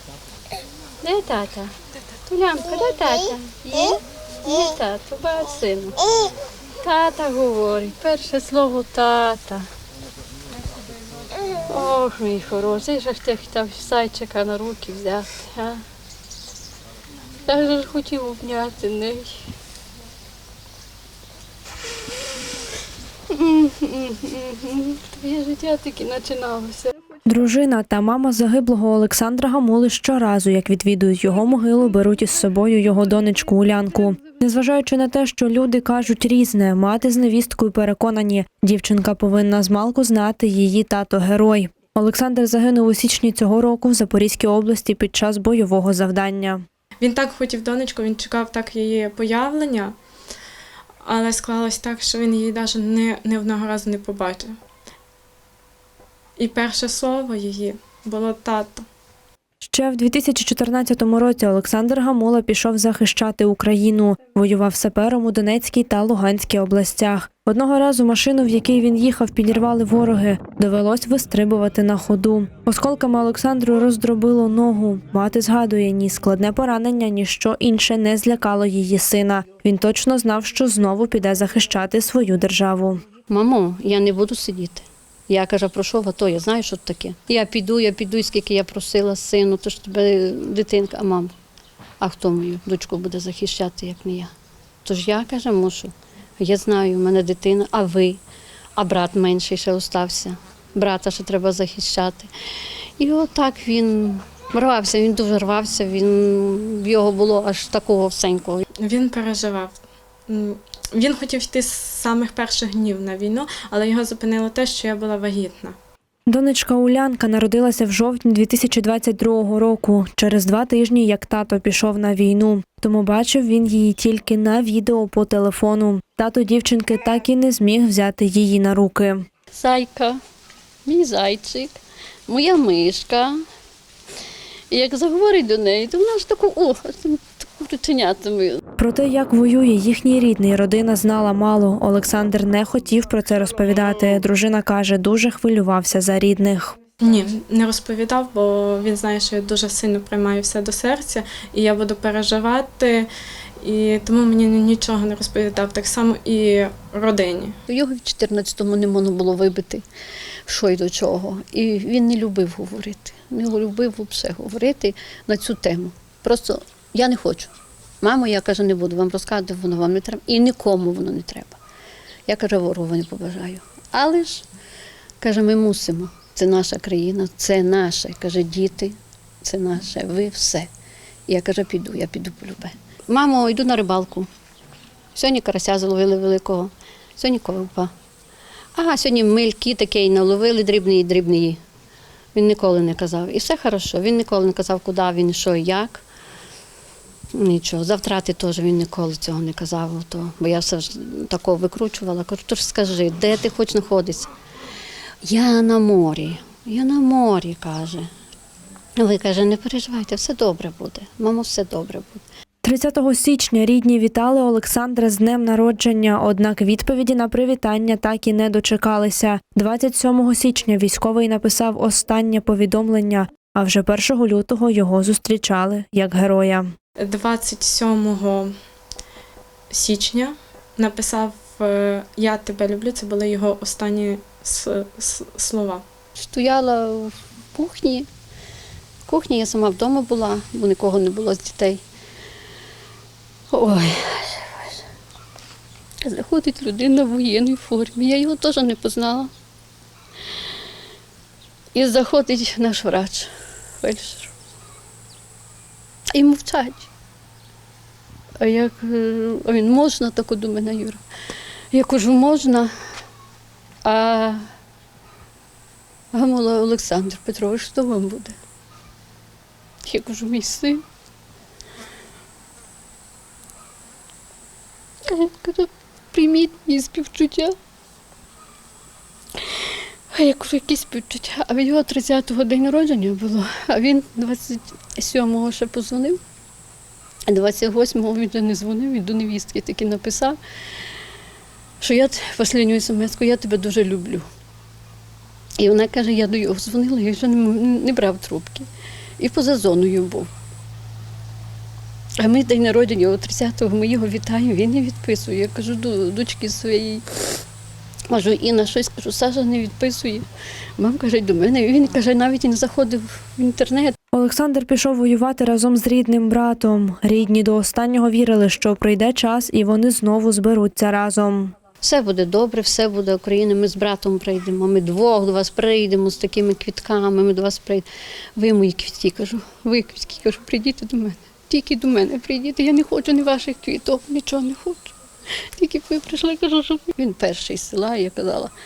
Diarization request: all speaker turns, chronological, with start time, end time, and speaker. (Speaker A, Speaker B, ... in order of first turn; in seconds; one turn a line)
Speaker A: 1.0-6.0
Speaker A: 6.8-9.7
Speaker A: 11.5-15.8
Speaker A: 17.4-19.3
Speaker A: 23.3-27.0
Speaker B: 27.2-46.6
Speaker C: 47.0-50.0
Speaker C: 51.0-54.5
Speaker C: 56.4-58.9
Speaker B: 59.6-83.0
Speaker A: 83.3-91.3
Speaker A: 92.0-94.3
Speaker A: 94.8-98.2
Speaker A: 98.8-102.3
Speaker A: 103.0-108.6
Speaker C: 108.8-109.8
Speaker C: 110.3-115.8
Speaker B: 116.3-129.2
Speaker A: 129.5-130.2
Speaker A: 130.8-131.8
Speaker A: 132.3-133.4
Speaker A: 134.7-138.6
Speaker B: 138.8-146.8
Speaker C: 147.0-153.1
Speaker C: 153.6-157.6
Speaker A: 157.7-159.8
Speaker A: 160.5-171.6
Speaker A: 172.3-174.4
Speaker A: 175.2-180.7
Speaker A: 181.3-184.3
Speaker A: 185.1-187.9
Speaker A: 188.7-191.6
Speaker A: 192.3-196.0
Speaker A: 197.3-204.3
Speaker A: 205.2-208.1
Speaker A: 209.0-212.2
Speaker B: 212.6-226.7
Speaker C: 227.0-228.5
Speaker C: 229.7-235.8
Speaker A: 236.2-238.1
Speaker A: 239.1-241.8
Speaker A: 243.5-244.8
Speaker A: 246.0-249.3
Speaker A: 251.7-253.3
Speaker A: 253.8-254.3
Speaker A: 256.1-256.9
Speaker A: 258.4-261.0
Speaker A: 261.7-262.7
Speaker A: 263.8-264.4
Speaker A: 266.1-268.4
Speaker A: 269.9-270.8
Speaker A: 275.1-277.5
Speaker A: 279.5-286.2
Speaker A: 287.3-290.4
Speaker A: 291.8-294.3
Speaker A: 295.6-298.7
Speaker A: 299.2-300.3
Speaker A: 302.2-307.0
Speaker A: 308.1-310.2
Speaker A: 310.8-313.9
Speaker B: 314.1-321.5
Speaker A: 321.8-334.9
Speaker A: 335.5-338.5